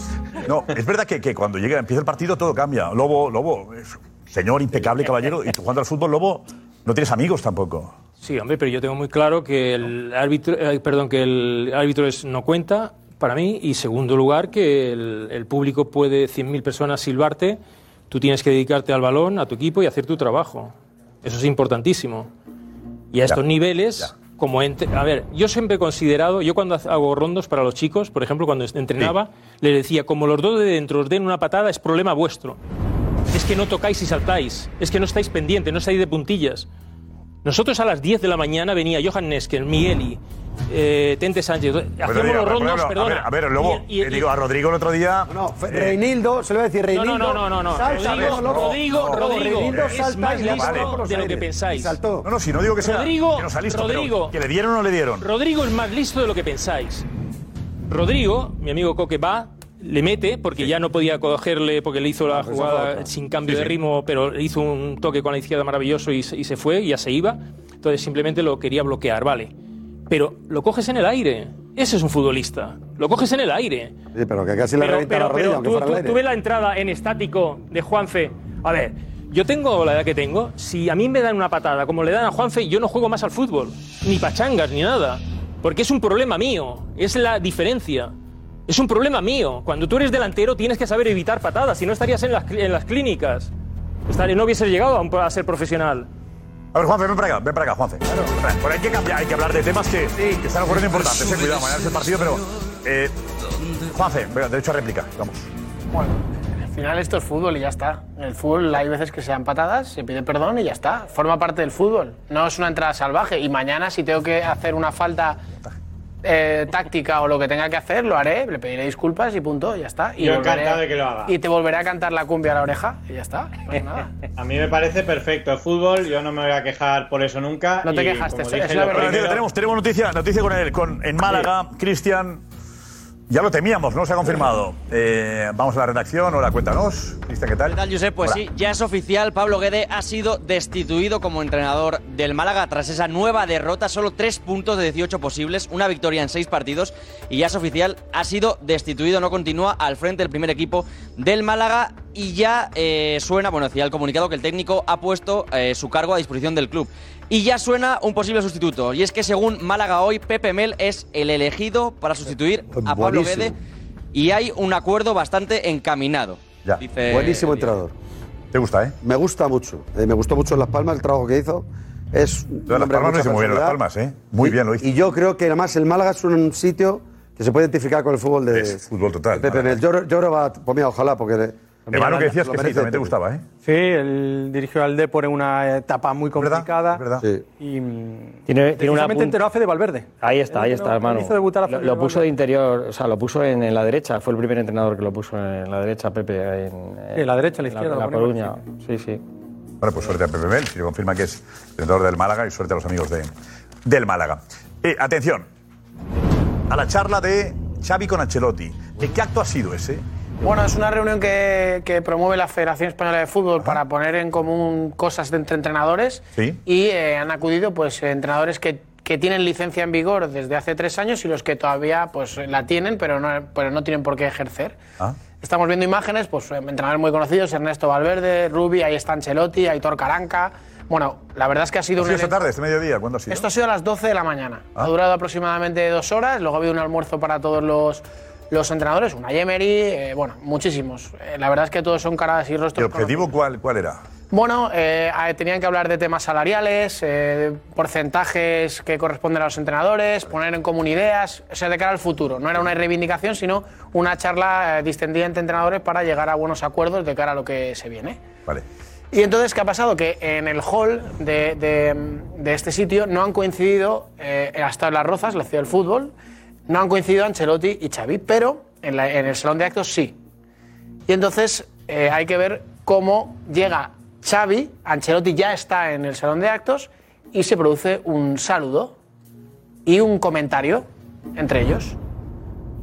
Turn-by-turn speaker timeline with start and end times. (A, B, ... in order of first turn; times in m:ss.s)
0:00.4-0:08.0 A
0:08.2-0:17.6 B
0:18.1-0:22.3 B
0:23.1-0:32.6 B
0:33.3-0:36.7 B
0:37.4-0:44.3 B
0:42.0-0:46.0 A
0:45.3-0:52.3 C
0:46.9-0:52.0 B
0:47.9-0:51.0 A
0:52.2-0:55.3 A
0:52.8-0:54.4 B
0:55.2-0:57.1 B
0:57.9-1:09.5 B
1:02.3-1:03.1 C
1:03.5-1:03.8 A
1:10.1-1:13.9 B
1:14.1-1:16.2 C
1:14.8-1:28.1 B
1:28.7-1:33.5 B
1:34.1-1:36.1 B
1:36.7-1:43.1 A
1:43.8-1:45.5 A
1:45.9-1:55.4 D
1:56.2-2:04.1 D
2:00.2-2:01.3 E
2:04.4-2:09.4 E
2:07.8-2:09.4 D
2:08.9-2:12.4 A
2:13.3-2:18.4 A
2:17.7-2:43.6 F
2:42.7-2:43.5 C
2:44.1-2:47.6 F
2:47.0-2:47.9 C
2:48.5-2:49.0 A
2:49.0-2:53.8 C
2:52.7-2:54.9 A
2:54.4-2:58.8 C
2:58.5-2:59.8 A
2:59.3-3:03.1 C
3:01.9-3:03.4 A
3:03.6-3:07.0 G
3:06.4-3:07.3 A
3:07.2-3:07.4 C
3:07.6-3:12.3 G
3:08.5-3:09.4 H
3:10.2-3:19.2 H
3:17.2-3:18.6 G
3:19.8-3:23.3 A
3:23.8-3:25.5 A
3:26.7-3:30.0 A
3:30.4-3:44.8 D
3:45.4-3:52.5 D
3:52.0-3:53.5 A
3:53.3-4:03.3 D
4:02.8-4:04.0 A
4:04.3-4:18.2 D
4:19.1-4:26.1 D
4:26.7-4:30.2 D
4:31.1-4:39.0 D
4:39.9-4:42.0 D